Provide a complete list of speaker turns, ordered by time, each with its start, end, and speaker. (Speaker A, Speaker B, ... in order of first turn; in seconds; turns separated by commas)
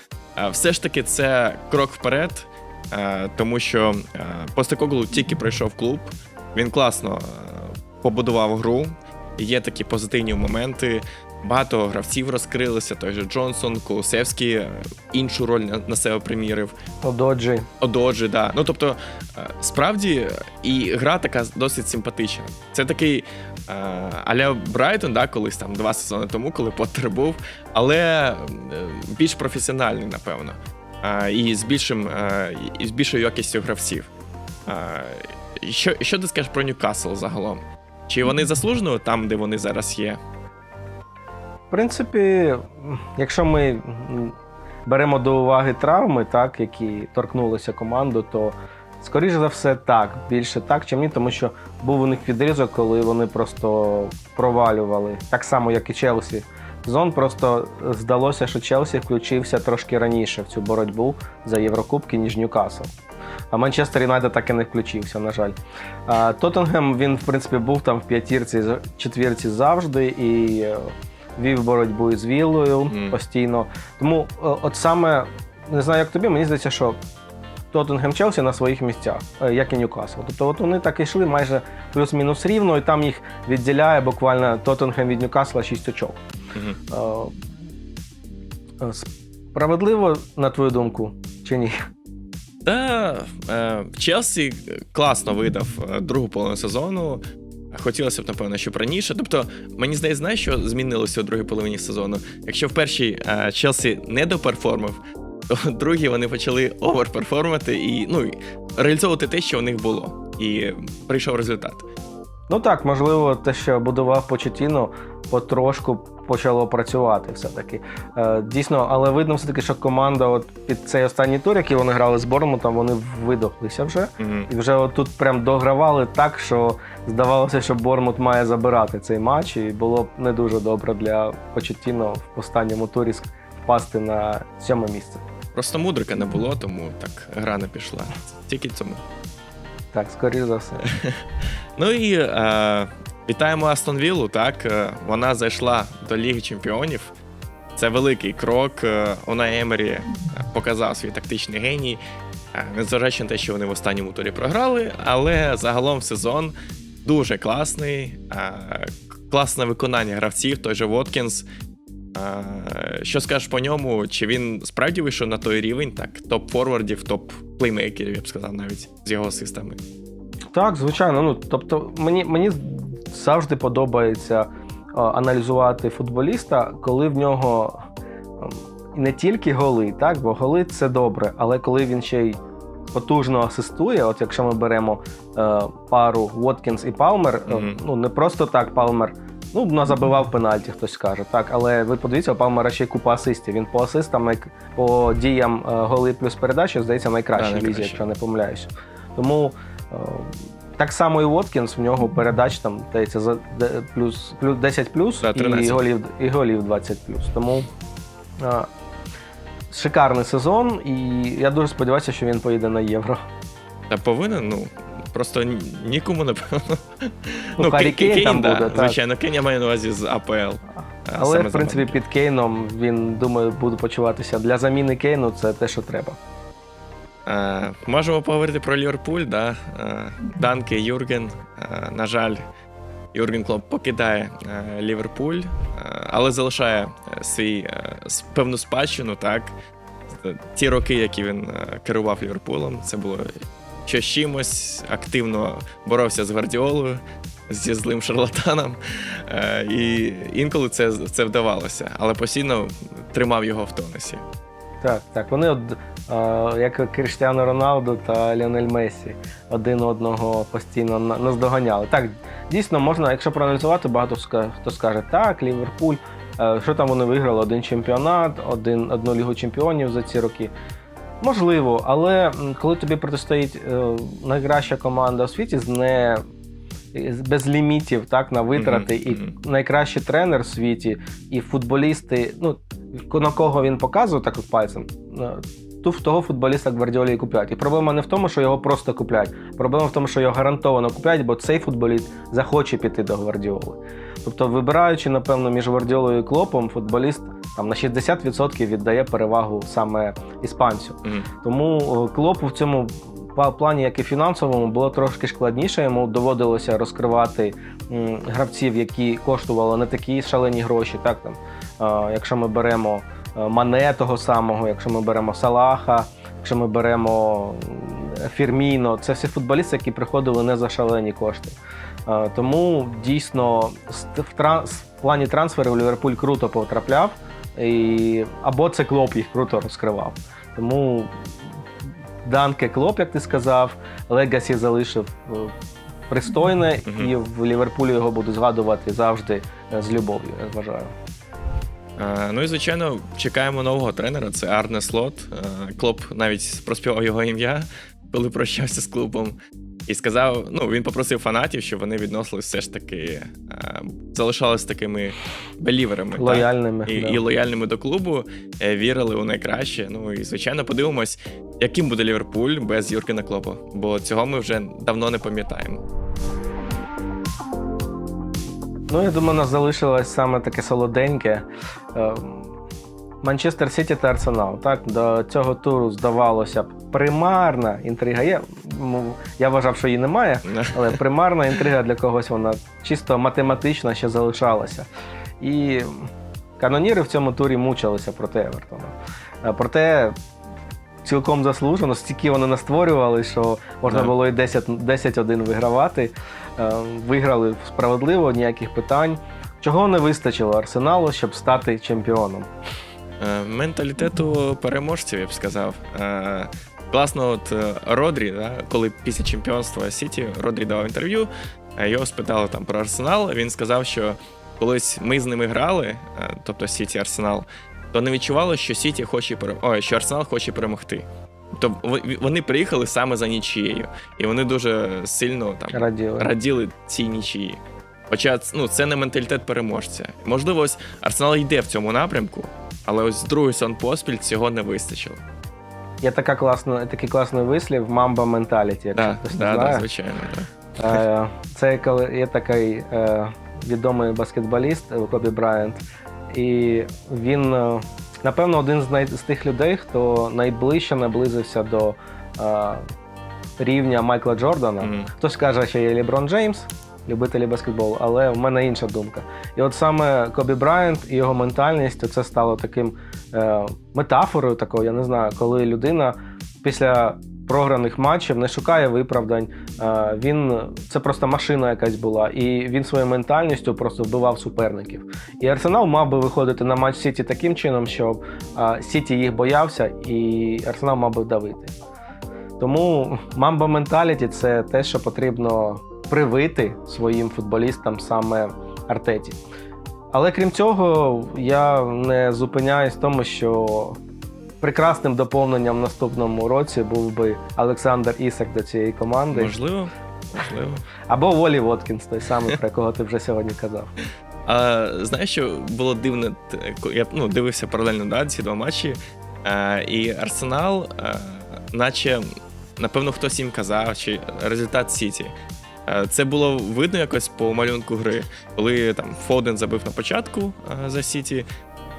Speaker A: 0.4-16.7, Speaker B: 17.0-17.7, Speaker A: 17.8-34.1, Speaker A: 34.7-40.2, Speaker B: 41.7-62.9, Speaker B: 63.5-77.0, Speaker A: 72.9-73.2, Speaker B: 77.7-86.2, Speaker B: 86.9-87.3, Speaker B: 88.8-91.8, Speaker A: 92.7-97.2, Speaker A: 97.7-111.9, Speaker B: 112.5-135.2, Speaker A: 124.2-124.5, Speaker A: 135.6-139.0, Speaker B: 139.9-140.8, Speaker A: 140.9-141.2, Speaker A: 141.8-147.1, Speaker A: 147.8-152.0, Speaker A: 152.5-161.5, Speaker A: 162.2-169.8, Speaker B: 170.5-177.8, Speaker B: 178.4-182.4, Speaker B: 182.9-207.7, Speaker A: 187.5-187.8, Speaker A: 197.4-198.0, Speaker A: 205.2-205.9, Speaker B: 208.4-208.7, Speaker B: 209.7-213.2, Speaker A: 213.9-222.0, Speaker B: 217.6-219.0, Speaker B: 221.2-226.2, Speaker A: 227.3-232.4, Speaker A: 233.1-239.6, Speaker A: 240.2-254.2, Speaker B: 254.8-270.5, Speaker B: 271.2-276.2, Speaker B: 276.9-321.6, Speaker A: 278.6-279.4, Speaker A: 301.0-301.3, Speaker B: 322.1-331.5, Speaker B: 332.2-335.5, Speaker B: 336.1-340.9, Speaker A: 336.9-337.1, Speaker A: 342.0-365.8, Speaker B: 356.2-357.2, Speaker B: 368.9-372.6, Speaker B: 373.2-384.9, Speaker A: 380.5-380.9, Speaker B: 385.4-390.2, Speaker B: 391.0-402.5, Speaker A: 393.9-394.1, Speaker A: 403.2-427.6, Speaker B: 425.7-426.3, Speaker A: 428.1-435.2, Speaker B: 436.0-439.9, Speaker A: 438.9-440.5, Speaker B: 440.8-452.9, Speaker B: 453.6-481.7, Speaker A: 454.8-455.1, Speaker B: 482.6-489.4, Speaker B: 490.1-494.0, Speaker B: 494.6-499.5, Speaker A: 499.3-500.9, Speaker B: 501.1-503.9, Speaker A: 504.5-512.3, Speaker A: 512.8-515.3, Speaker A: 515.9-521.5